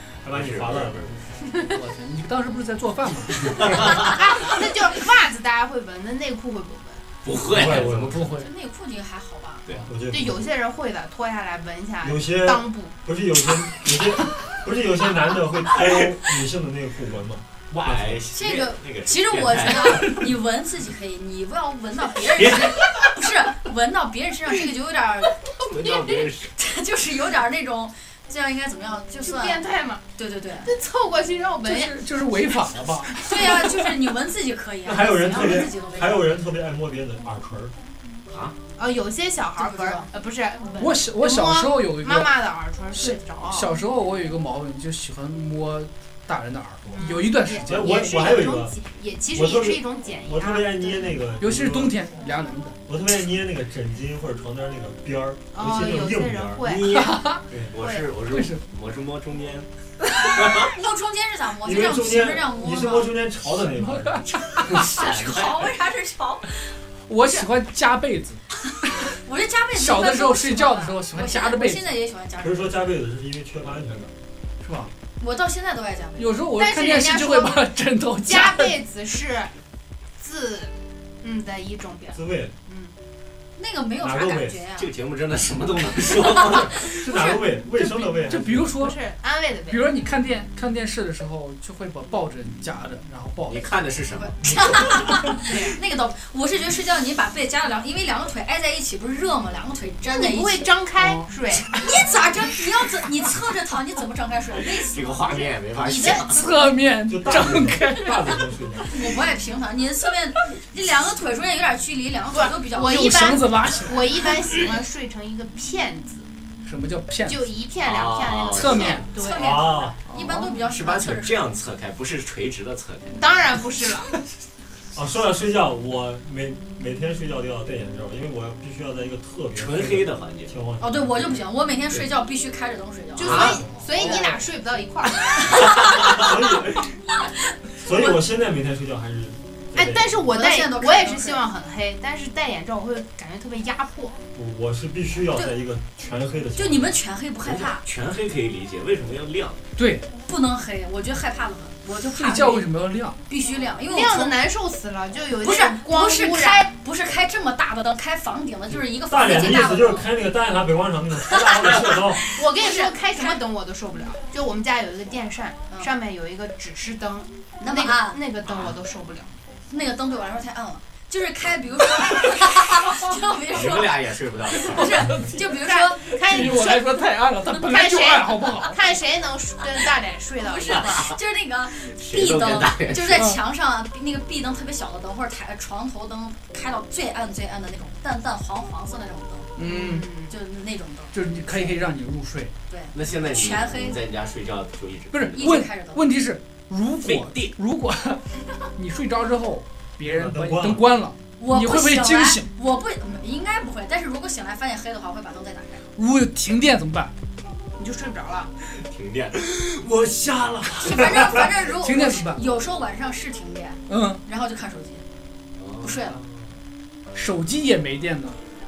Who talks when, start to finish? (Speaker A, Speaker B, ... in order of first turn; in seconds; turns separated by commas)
Speaker A: 0.2-1.2, Speaker B: 0.3-1.2, Speaker C: 1.4-1.8, Speaker D: 1.6-4.0, Speaker B: 3.5-4.2, Speaker C: 3.8-7.0, Speaker B: 7.2-8.3, Speaker A: 7.5-8.4, Speaker D: 8.1-8.4, Speaker E: 8.3-9.7, Speaker A: 9.8-10.5, Speaker C: 10.1-12.9, Speaker A: 12.0-18.2, Speaker B: 17.8-20.2, Speaker E: 18.3-29.6, Speaker B: 22.4-23.1, Speaker B: 25.6-26.5, Speaker C: 29.2-30.0, Speaker E: 30.1-30.7, Speaker C: 30.6-32.0, Speaker D: 31.6-33.3, Speaker E: 33.2-36.3, Speaker A: 34.9-37.7, Speaker B: 38.3-38.6, Speaker C: 38.8-43.7, Speaker E: 39.6-40.1, Speaker D: 40.8-42.4, Speaker D: 42.9-48.1, Speaker C: 46.9-51.1, Speaker A: 47.5-48.8, Speaker A: 49.3-52.0, Speaker D: 51.4-52.8, Speaker A: 52.9-56.6, Speaker C: 55.5-57.0, Speaker B: 56.6-59.7, Speaker D: 56.9-57.4, Speaker C: 57.8-58.1, Speaker D: 58.2-58.6, Speaker B: 60.2-60.7, Speaker E: 60.5-63.1, Speaker A: 61.6-64.3, Speaker D: 63.8-64.8, Speaker E: 64.6-66.7, Speaker B: 64.7-65.7, Speaker D: 67.1-68.4, Speaker E: 69.2-72.9, Speaker D: 69.7-71.9, Speaker A: 72.4-74.1, Speaker D: 74.6-74.9, Speaker E: 75.2-76.4, Speaker D: 76.2-78.8, Speaker C: 76.6-77.7, Speaker C: 78.2-79.5, Speaker C: 80.2-82.9, Speaker A: 82.1-82.5, Speaker E: 83.6-84.9, Speaker A: 84.0-84.6, Speaker B: 84.8-86.9, Speaker A: 86.5-88.9, Speaker D: 87.7-89.0, Speaker C: 88.8-89.9, Speaker D: 89.7-93.7, Speaker B: 93.5-95.0, Speaker E: 94.1-100.7, Speaker C: 95.4-95.8, Speaker C: 100.1-101.7, Speaker D: 101.0-101.8, Speaker E: 101.7-106.2, Speaker B: 104.9-106.5, Speaker C: 105.8-106.4, Speaker D: 106.2-108.4, Speaker A: 107.1-109.1, Speaker E: 108.8-113.4, Speaker C: 112.3-116.3, Speaker D: 112.8-114.3, Speaker D: 116.6-117.4, Speaker C: 117.2-119.6, Speaker B: 117.8-119.0, Speaker D: 118.5-119.1, Speaker E: 119.0-121.4, Speaker A: 119.3-120.0, Speaker D: 120.0-120.6, Speaker B: 120.7-123.3, Speaker C: 123.1-124.1, Speaker A: 124.9-132.0, Speaker B: 129.6-130.5, Speaker E: 130.8-134.4, Speaker C: 133.2-135.7, Speaker B: 133.2-133.6, Speaker A: 133.3-133.7, Speaker B: 135.9-136.2, Speaker A: 136.0-136.9, Speaker A: 137.8-140.2, Speaker C: 139.8-144.2, Speaker E: 140.3-141.4, Speaker A: 144.3-147.0, Speaker E: 146.6-147.8, Speaker B: 147.4-149.6, Speaker D: 149.8-150.1, Speaker E: 150.2-152.7, Speaker D: 152.1-153.2, Speaker E: 153.3-154.4, Speaker C: 153.9-156.7, Speaker E: 155.4-160.1, Speaker A: 158.8-162.2, Speaker E: 161.3-163.4, Speaker C: 162.3-169.3, Speaker E: 167.6-168.2, Speaker B: 168.4-168.7, Speaker E: 169.7-174.0, Speaker B: 173.5-175.1, Speaker E: 174.6-176.6, Speaker D: 174.7-175.4, Speaker C: 175.6-176.9, Speaker D: 176.2-178.8, Speaker C: 177.6-181.1, Speaker E: 180.4-189.5, Speaker B: 181.9-183.3, Speaker D: 183.1-183.4, Speaker D: 189.6-190.1, Speaker C: 189.6-190.3, Speaker E: 190.3-191.6, Speaker D: 191.1-192.5, Speaker E: 192.7-194.0, Speaker B: 192.9-195.4, Speaker D: 195.1-198.2, Speaker E: 195.3-196.0, Speaker B: 197.0-197.5, Speaker D: 198.8-202.5, Speaker A: 200.0-200.9, Speaker E: 201.4-205.8, Speaker D: 206.0-207.1, Speaker C: 207.8-208.5, Speaker B: 208.7-211.2, Speaker E: 210.8-215.0, Speaker D: 211.7-212.4, Speaker D: 213.9-214.2, Speaker B: 215.6-216.4, Speaker E: 215.8-216.2, Speaker D: 217.2-218.4